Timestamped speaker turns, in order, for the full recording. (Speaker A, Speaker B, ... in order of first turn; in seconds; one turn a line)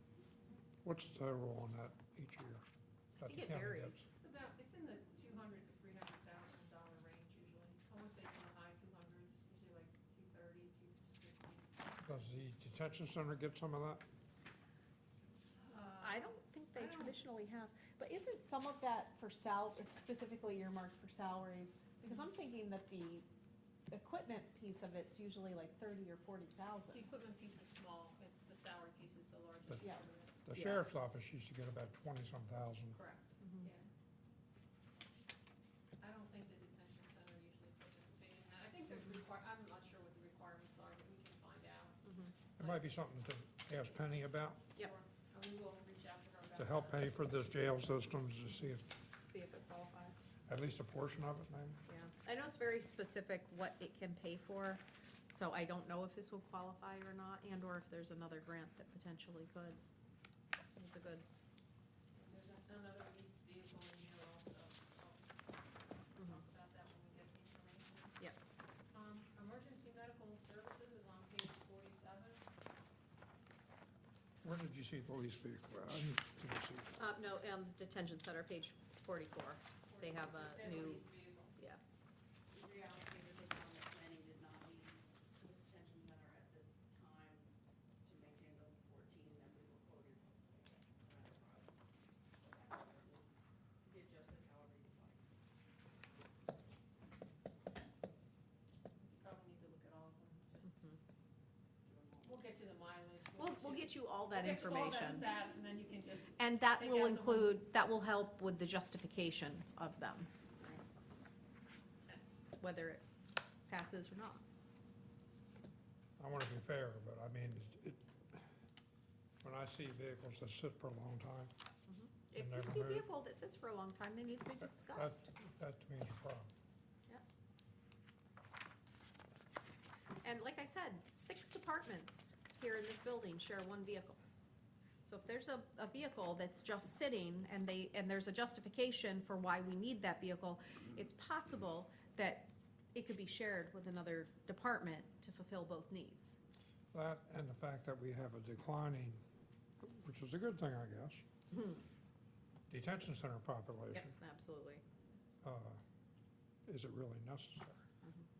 Speaker A: 0.8-2.6
Speaker A: 3.2-4.1
Speaker B: 3.2-4.1
Speaker C: 4.1-11.7
Speaker A: 12.0-14.0
Speaker C: 15.6-17.2
Speaker B: 16.0-23.2
Speaker B: 23.9-27.0
Speaker C: 26.9-30.4
Speaker A: 29.7-33.0
Speaker B: 30.5-30.8
Speaker C: 33.0-33.9
Speaker C: 36.0-42.0
Speaker B: 42.0-42.3
Speaker C: 42.6-42.8
Speaker A: 42.6-44.6
Speaker C: 44.8-47.1
Speaker A: 46.6-49.0
Speaker B: 49.3-50.2
Speaker A: 50.5-51.8
Speaker B: 51.9-59.8
Speaker B: 60.8-61.2
Speaker C: 62.1-65.3
Speaker C: 66.2-68.2
Speaker C: 68.9-72.4
Speaker A: 74.4-77.0
Speaker B: 77.0-81.8
Speaker C: 79.9-81.6
Speaker D: 82.5-87.5
Speaker D: 88.0-93.3
Speaker D: 93.8-95.2
Speaker C: 99.0-101.0
Speaker D: 101.8-102.5
Speaker C: 102.2-107.6
Speaker B: 103.4-105.2
Speaker B: 106.4-110.8
Speaker B: 112.6-113.0
Speaker B: 113.7-114.4
Speaker A: 116.2-118.5
Speaker A: 119.4-121.5
Speaker B: 121.9-125.1
Speaker A: 122.3-123.1
Speaker A: 124.7-126.5
Speaker B: 130.2-134.2
Speaker B: 135.1-146.4
Speaker A: 146.9-149.2
Speaker A: 149.8-151.2
Speaker B: 151.5-151.8
Speaker A: 152.7-154.2
Speaker B: 154.2-154.8
Speaker A: 155.4-155.8
Speaker A: 156.7-157.9